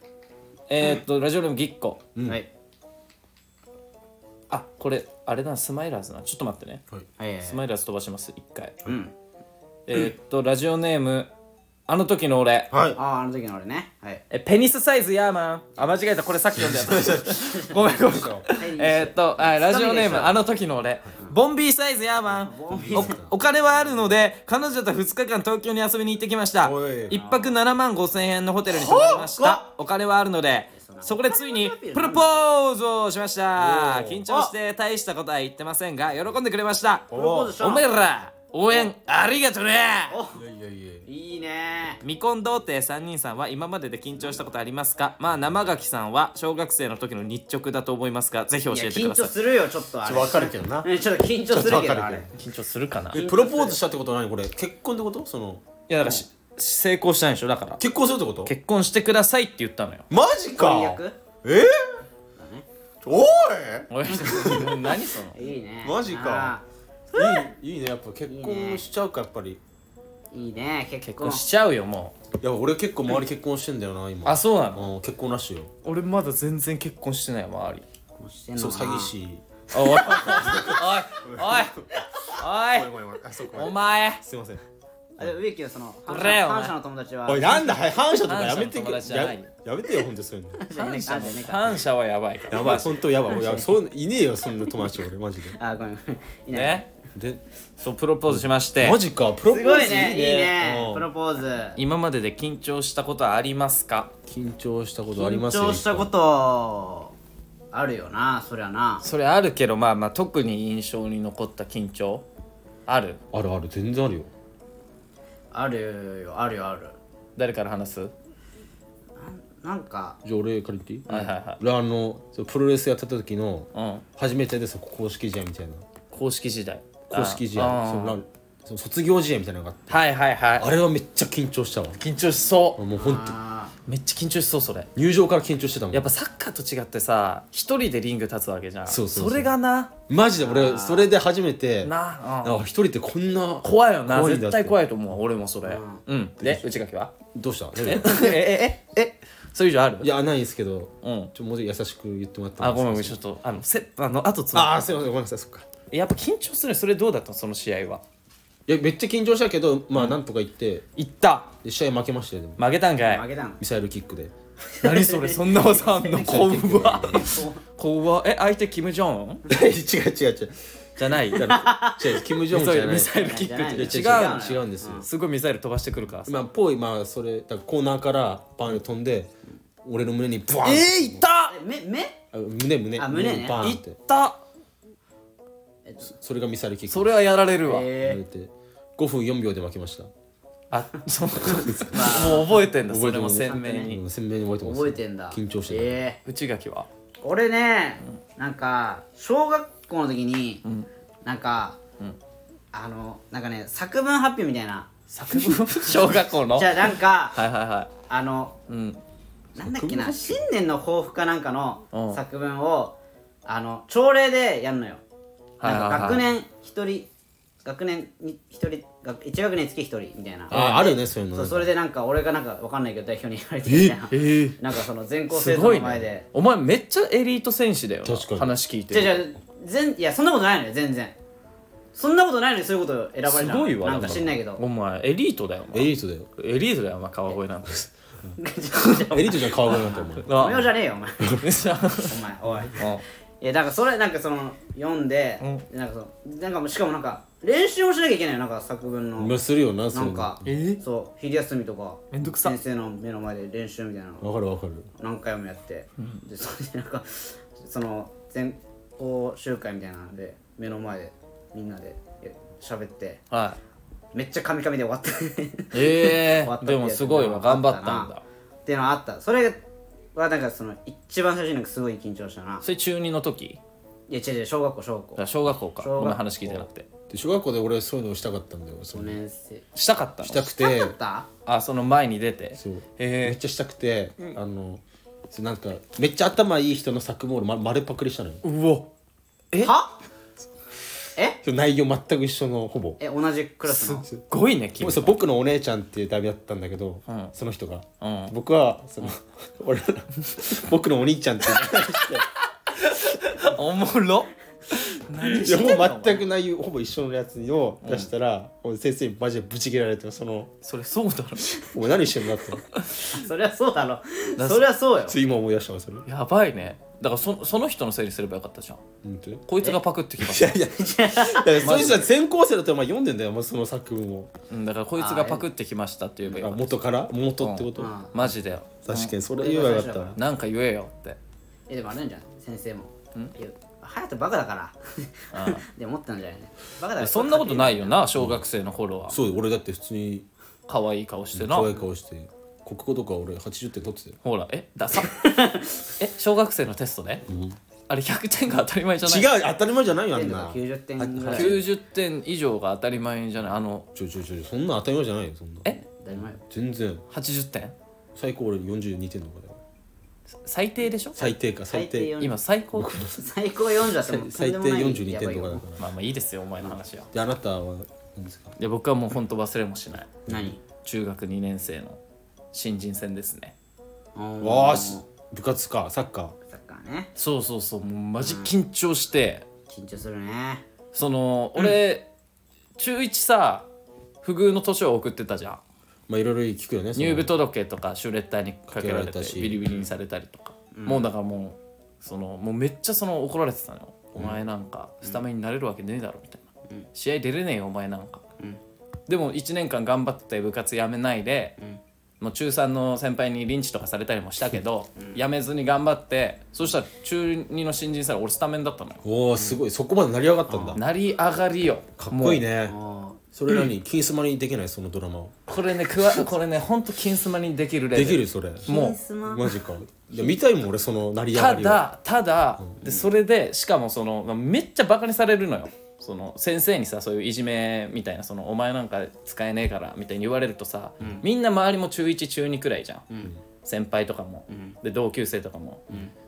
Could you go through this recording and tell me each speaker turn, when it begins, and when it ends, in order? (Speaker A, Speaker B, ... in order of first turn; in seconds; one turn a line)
Speaker A: 0.7-2.0
Speaker B: 2.1-2.4
Speaker A: 4.5-6.8
Speaker C: 7.2-7.6
Speaker A: 7.4-8.8
Speaker C: 8.8-9.1
Speaker A: 9.9-11.3
Speaker A: 11.9-12.7
Speaker B: 12.7-13.0
Speaker C: 12.9-14.2
Speaker A: 14.3-40.2
Speaker B: 16.6-17.4
Speaker B: 18.0-18.4
Speaker C: 18.4-20.4
Speaker C: 22.3-23.2
Speaker B: 22.7-23.4
Speaker B: 26.6-27.1
Speaker C: 27.1-27.6
Speaker B: 28.7-29.6
Speaker C: 30.7-32.3
Speaker B: 33.6-34.4
Speaker B: 37.1-37.6
Speaker C: 37.1-37.9
Speaker C: 40.1-40.4
Speaker B: 40.3-41.1
Speaker C: 41.0-42.0
Speaker A: 42.0-49.3
Speaker C: 48.7-52.3
Speaker B: 50.0-50.9
Speaker B: 51.5-52.3
Speaker A: 52.4-53.2
Speaker B: 53.1-55.6
Speaker C: 53.1-53.8
Speaker A: 55.9-57.8
Speaker B: 57.8-58.5
Speaker A: 58.4-60.0
Speaker B: 60.1-62.0
Speaker C: 60.5-61.2
Speaker C: 62.4-62.6
Speaker B: 63.0-64.9
Speaker A: 63.9-65.4
Speaker C: 65.3-66.6
Speaker B: 65.8-66.5
Speaker B: 67.1-69.6
Speaker C: 68.3-68.8
Speaker C: 70.3-71.4
Speaker A: 71.0-72.1
Speaker B: 72.4-75.7
Speaker A: 74.2-74.9
Speaker A: 75.8-77.8
Speaker C: 78.2-79.1
Speaker B: 78.5-79.4
Speaker A: 79.7-82.9
Speaker B: 80.2-81.7
Speaker C: 80.3-80.7
Speaker B: 82.6-84.6
Speaker A: 83.5-84.2
Speaker C: 85.2-87.7
Speaker A: 86.1-86.7
Speaker B: 87.3-90.6
Speaker A: 88.2-89.5
Speaker C: 90.6-91.8
Speaker A: 90.7-93.0
Speaker B: 92.5-95.6
Speaker C: 93.3-93.7
Speaker C: 95.5-96.8
Speaker A: 96.5-96.9
Speaker B: 97.1-97.4
Speaker A: 97.8-99.0
Speaker B: 98.3-101.1
Speaker C: 99.5-101.8
Speaker A: 101.8-104.1
Speaker B: 104.3-106.1
Speaker C: 105.1-107.1
Speaker C: 107.7-109.0
Speaker A: 109.0-112.2
Speaker A: 112.9-113.2
Speaker B: 113.3-114.3
Speaker C: 115.5-117.0
Speaker A: 117.3-118.1
Speaker C: 119.2-120.2
Speaker B: 120.2-125.8
Speaker A: 121.1-121.6
Speaker A: 123.7-124.0
Speaker A: 126.1-128.2
Speaker B: 127.1-130.0
Speaker A: 129.9-130.7
Speaker B: 130.6-132.0
Speaker A: 132.0-132.8
Speaker B: 132.8-133.3
Speaker C: 132.9-133.7
Speaker A: 133.8-134.9
Speaker B: 134.9-136.1
Speaker A: 135.9-139.9
Speaker B: 138.8-139.5
Speaker B: 140.1-141.9
Speaker C: 140.4-141.1
Speaker A: 141.8-142.6
Speaker B: 142.4-144.8
Speaker A: 143.6-147.1
Speaker C: 145.6-146.0
Speaker B: 146.4-146.6
Speaker B: 147.3-148.4
Speaker A: 147.8-150.1
Speaker B: 150.0-153.2
Speaker A: 151.0-151.3
Speaker A: 152.6-154.9
Speaker B: 154.5-155.7
Speaker A: 155.9-158.0
Speaker B: 158.7-160.8
Speaker A: 160.9-161.5
Speaker B: 161.6-162.6
Speaker A: 162.6-163.2
Speaker C: 163.0-163.6
Speaker B: 163.6-164.3
Speaker C: 164.7-167.6
Speaker A: 164.8-169.4
Speaker B: 169.5-170.5
Speaker A: 171.0-171.5
Speaker B: 171.3-175.1
Speaker C: 171.5-172.0
Speaker A: 172.5-176.4
Speaker C: 173.1-175.0
Speaker B: 176.2-179.3
Speaker B: 179.8-181.2
Speaker A: 180.6-181.5
Speaker C: 181.5-182.2
Speaker B: 182.3-184.0
Speaker C: 183.0-183.6
Speaker A: 183.6-184.4
Speaker B: 186.0-187.2
Speaker A: 186.9-187.9
Speaker C: 187.6-188.2
Speaker B: 187.9-190.1
Speaker A: 190.7-194.0
Speaker C: 191.5-192.6
Speaker B: 191.6-192.3
Speaker B: 192.8-196.0
Speaker C: 193.4-193.9
Speaker C: 194.6-196.2
Speaker A: 196.2-196.9
Speaker C: 197.2-200.6
Speaker C: 201.2-201.8
Speaker C: 202.7-204.9
Speaker A: 205.1-207.9
Speaker C: 206.5-207.4
Speaker C: 208.1-208.6
Speaker A: 208.7-209.0
Speaker C: 209.6-215.0
Speaker B: 209.6-210.4
Speaker A: 211.9-212.2
Speaker A: 215.6-216.3
Speaker C: 215.6-217.1
Speaker C: 217.6-226.2
Speaker A: 220.5-220.9
Speaker B: 220.5-221.7
Speaker A: 223.8-224.6
Speaker A: 225.3-229.3
Speaker B: 228.0-228.5
Speaker C: 228.9-231.2
Speaker C: 231.9-234.6
Speaker A: 233.3-237.9
Speaker B: 235.7-236.3
Speaker C: 238.4-241.4
Speaker B: 239.1-240.6
Speaker A: 240.2-240.7
Speaker A: 241.4-242.2
Speaker C: 242.1-242.8
Speaker A: 242.7-243.0
Speaker C: 243.4-249.4
Speaker B: 249.2-250.5
Speaker C: 249.9-254.3
Speaker A: 250.4-250.8
Speaker A: 252.1-252.6
Speaker B: 254.2-254.9
Speaker C: 255.0-263.2
Speaker A: 263.3-263.6
Speaker C: 264.1-268.1
Speaker A: 265.7-268.2
Speaker C: 268.6-269.6
Speaker C: 270.1-272.6
Speaker A: 272.6-273.6
Speaker C: 274.1-275.2
Speaker A: 275.2-276.9
Speaker C: 275.8-276.5
Speaker B: 277.1-279.2
Speaker C: 278.9-279.6
Speaker A: 279.7-280.5
Speaker B: 280.2-280.9
Speaker C: 280.5-281.3
Speaker A: 281.4-283.4
Speaker B: 282.6-288.4
Speaker A: 288.4-288.9
Speaker C: 289.6-290.0
Speaker B: 291.4-293.0
Speaker C: 293.0-294.1
Speaker A: 293.7-295.2
Speaker B: 294.8-302.3
Speaker A: 297.1-297.3
Speaker A: 298.0-298.3
Speaker A: 301.6-302.2
Speaker A: 302.7-306.2
Speaker B: 305.3-310.5
Speaker A: 307.8-308.1
Speaker A: 310.6-311.6
Speaker B: 311.4-312.6
Speaker A: 312.7-313.2
Speaker C: 313.0-315.1
Speaker A: 314.4-314.7
Speaker B: 315.1-316.1
Speaker A: 316.1-318.8
Speaker B: 319.0-319.4
Speaker A: 319.5-320.6
Speaker B: 320.2-324.3
Speaker C: 320.7-321.9
Speaker A: 321.6-322.0
Speaker A: 324.5-326.8
Speaker C: 325.0-325.4
Speaker B: 326.3-327.9
Speaker A: 327.4-329.1
Speaker C: 327.8-328.1
Speaker B: 328.8-330.2
Speaker C: 329.3-330.2
Speaker A: 330.1-331.2
Speaker C: 331.7-338.0
Speaker A: 335.3-335.6
Speaker A: 337.0-339.2
Speaker B: 338.1-338.4
Speaker B: 339.1-340.3
Speaker A: 340.7-341.7
Speaker B: 341.3-344.2
Speaker A: 344.2-345.4
Speaker C: 345.0-345.8
Speaker A: 346.0-347.2
Speaker B: 347.3-347.6
Speaker A: 347.9-349.3
Speaker B: 349.0-351.7
Speaker C: 350.1-351.6
Speaker A: 351.2-353.9
Speaker B: 353.9-357.0
Speaker C: 355.7-356.4
Speaker A: 357.1-357.7
Speaker B: 358.1-359.6
Speaker A: 360.4-361.3
Speaker B: 361.1-362.1
Speaker C: 361.7-362.4
Speaker A: 362.2-363.0
Speaker B: 362.7-363.2
Speaker C: 363.0-365.6
Speaker B: 364.0-365.9
Speaker A: 365.8-367.1
Speaker B: 367.1-368.5
Speaker A: 368.6-370.1
Speaker B: 370.2-370.5
Speaker C: 370.3-370.6
Speaker A: 370.8-372.0
Speaker A: 372.5-373.5
Speaker C: 374.1-375.0
Speaker B: 374.4-376.3
Speaker C: 376.5-377.1
Speaker A: 377.2-379.4
Speaker C: 378.2-378.5
Speaker C: 379.7-380.6
Speaker A: 380.9-382.1
Speaker A: 382.8-383.7
Speaker A: 384.2-385.6
Speaker B: 386.1-387.3
Speaker A: 386.9-398.2
Speaker B: 388.7-389.6
Speaker C: 390.7-391.1
Speaker A: 399.1-401.6
Speaker A: 402.2-409.0
Speaker B: 409.0-410.8
Speaker C: 410.5-410.8
Speaker A: 410.7-412.4
Speaker B: 412.0-412.8
Speaker C: 412.7-413.2
Speaker B: 413.3-415.3
Speaker A: 415.5-419.0
Speaker B: 417.9-418.7
Speaker C: 418.7-419.6
Speaker B: 419.2-421.8
Speaker A: 421.3-433.1
Speaker A: 433.6-435.9
Speaker C: 434.5-434.8